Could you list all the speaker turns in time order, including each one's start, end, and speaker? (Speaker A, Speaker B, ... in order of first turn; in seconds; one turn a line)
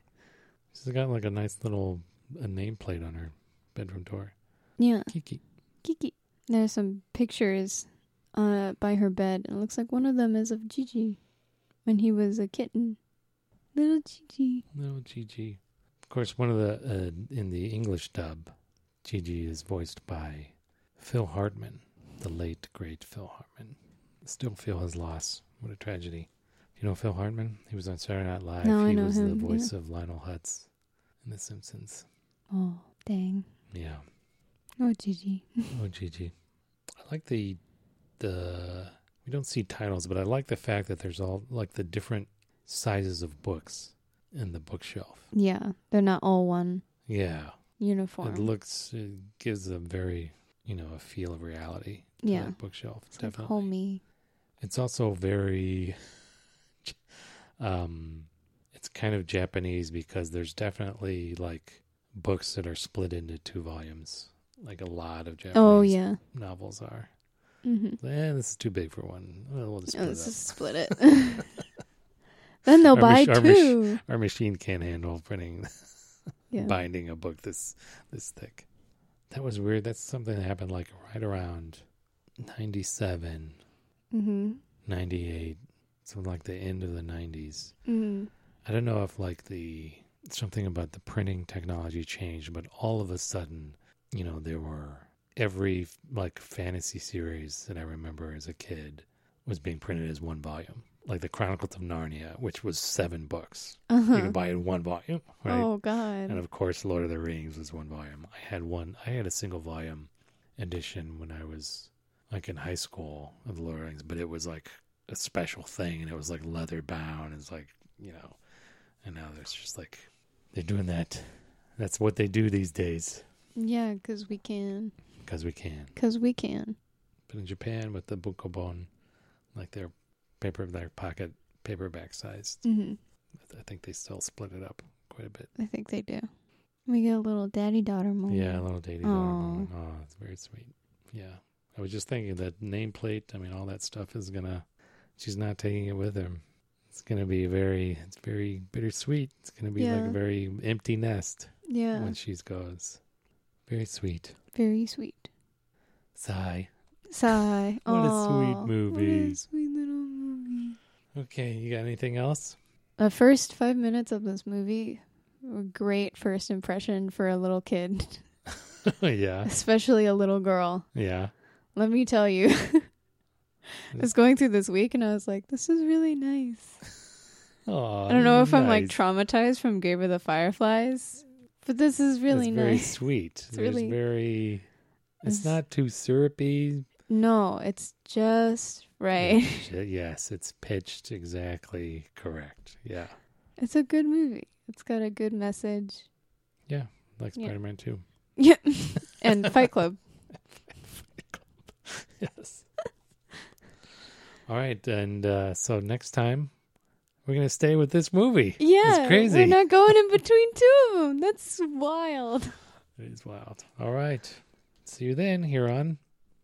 Speaker A: 0.7-4.4
Speaker B: 4.8-5.1
Speaker A: 5.1-5.4
Speaker B: 5.8-11.2
Speaker B: 11.8-13.0
Speaker B: 13.7-14.7
Speaker A: 14.7-30.7
Speaker B: 28.6-29.7
Speaker A: 31.2-32.1
Speaker B: 32.5-33.5
Speaker A: 33.7-34.0
Speaker B: 34.8-35.7
Speaker A: 35.7-36.3
Speaker A: 37.0-37.6
Speaker A: 38.2-45.3
Speaker B: 45.3-46.8
Speaker A: 47.1-47.6
Speaker B: 47.8-48.5
Speaker A: 48.2-53.7
Speaker B: 52.2-52.6
Speaker B: 53.1-54.0
Speaker A: 54.6-56.1
Speaker A: 57.6-67.1
Speaker B: 65.5-66.2
Speaker B: 67.6-68.0
Speaker A: 68.0-71.2
Speaker B: 69.9-71.5
Speaker B: 72.7-74.0
Speaker A: 72.9-76.0
Speaker B: 76.5-76.8
Speaker A: 76.6-78.7
Speaker A: 79.3-81.8
Speaker A: 82.4-83.6
Speaker B: 84.1-84.6
Speaker A: 84.9-87.8
Speaker B: 87.9-88.3
Speaker A: 88.7-105.7
Speaker B: 103.9-104.4
Speaker B: 105.5-106.4
Speaker A: 106.3-118.4
Speaker A: 119.0-123.2
Speaker B: 123.6-124.9
Speaker A: 125.2-126.0
Speaker B: 126.0-126.8
Speaker A: 127.3-128.9
Speaker A: 129.5-132.6
Speaker B: 132.6-133.0
Speaker A: 133.4-135.5
Speaker B: 135.6-136.3
Speaker B: 136.9-139.7
Speaker A: 138.3-153.0
Speaker B: 149.8-150.2
Speaker B: 151.7-152.2
Speaker A: 153.7-154.4
Speaker B: 154.5-155.3
Speaker A: 156.2-156.7
Speaker B: 157.1-160.8
Speaker A: 157.9-159.4
Speaker A: 161.2-162.6
Speaker B: 163.0-168.2
Speaker A: 168.9-169.5
Speaker B: 169.4-170.9
Speaker A: 170.9-171.3
Speaker B: 171.8-172.9
Speaker B: 173.9-176.8
Speaker A: 177.7-179.0
Speaker B: 178.1-183.0
Speaker A: 182.3-184.7
Speaker B: 183.5-184.0
Speaker A: 185.2-186.9
Speaker B: 185.3-185.6
Speaker B: 187.1-189.7
Speaker A: 189.2-193.2
Speaker B: 193.6-196.1
Speaker A: 196.7-198.0
Speaker B: 198.4-200.0
Speaker A: 200.9-202.7
Speaker A: 204.5-206.5
Speaker A: 207.3-210.0
Speaker B: 208.6-212.6
Speaker A: 213.0-216.0